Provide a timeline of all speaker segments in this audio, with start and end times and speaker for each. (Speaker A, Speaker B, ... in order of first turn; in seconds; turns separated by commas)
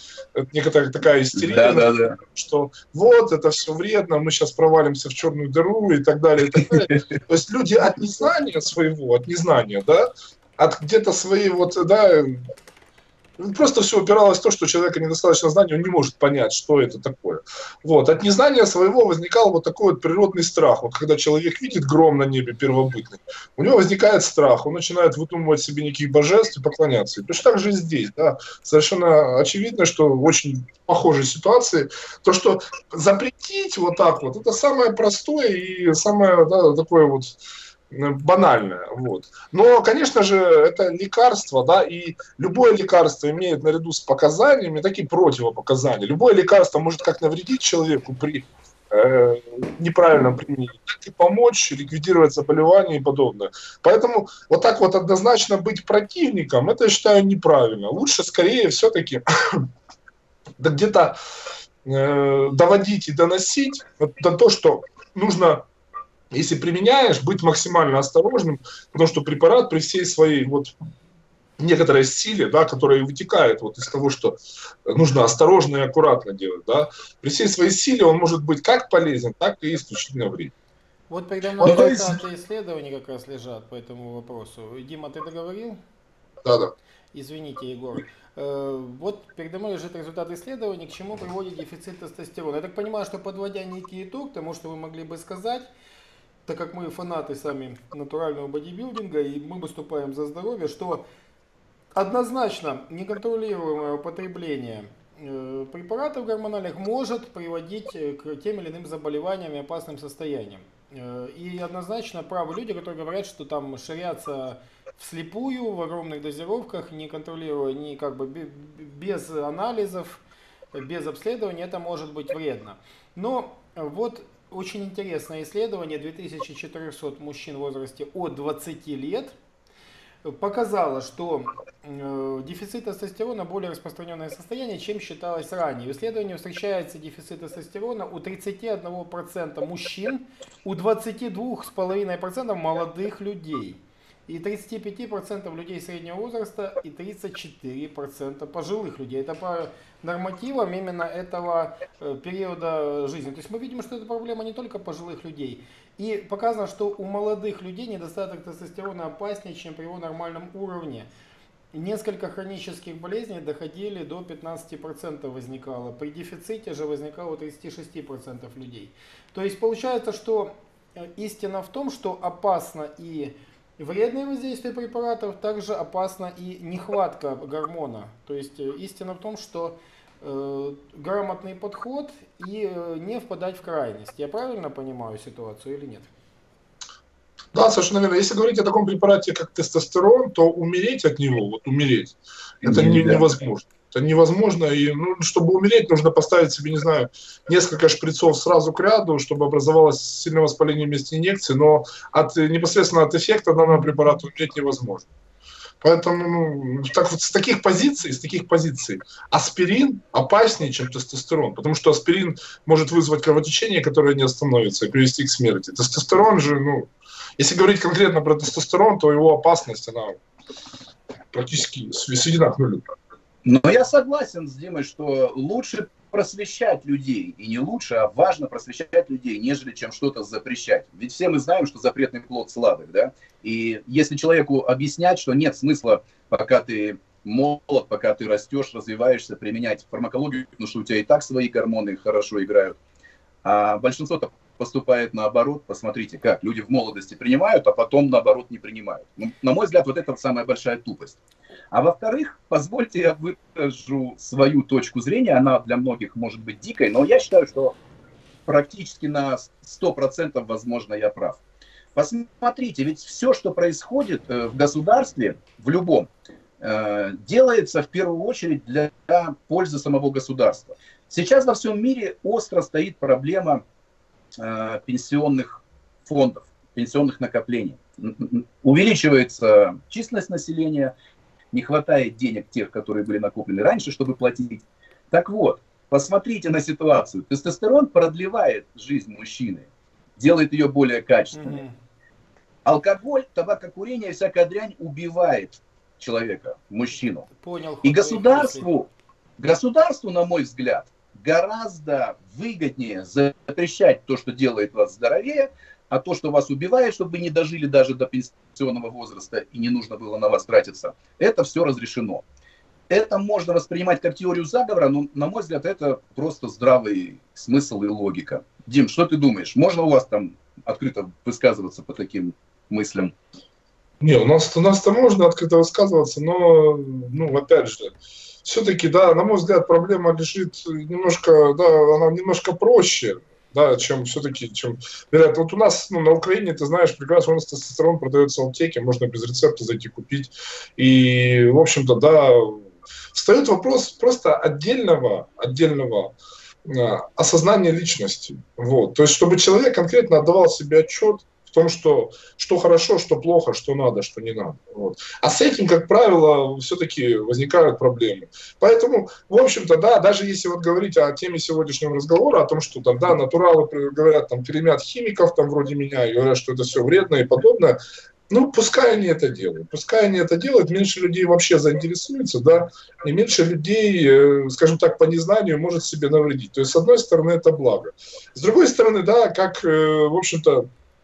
Speaker A: 0.3-12.4, Speaker B: 1.4-2.2, Speaker A: 13.4-37.4, Speaker A: 37.9-59.7, Speaker A: 60.6-61.1, Speaker A: 61.8-65.7, Speaker A: 66.3-70.7, Speaker A: 71.6-80.5, Speaker C: 81.1-85.8, Speaker A: 81.6-82.0, Speaker B: 81.6-82.1, Speaker A: 86.4-86.7, Speaker C: 87.1-95.7, Speaker C: 96.5-101.0, Speaker C: 101.9-120.2, Speaker C: 120.7-129.3, Speaker C: 130.2-161.1, Speaker C: 161.7-186.1, Speaker A: 187.5-205.1, Speaker B: 192.6-193.3, Speaker A: 205.8-220.2, Speaker A: 221.3-222.8, Speaker B: 223.4-242.8, Speaker B: 243.4-251.2, Speaker B: 251.7-257.7, Speaker B: 258.4-261.4, Speaker B: 261.9-266.1, Speaker B: 266.6-273.6, Speaker B: 274.4-280.9, Speaker B: 281.5-291.6, Speaker C: 291.3-291.7, Speaker B: 292.6-297.2, Speaker C: 297.3-298.7, Speaker B: 297.8-312.2, Speaker B: 312.9-323.1, Speaker A: 324.0-367.8, Speaker A: 368.3-380.6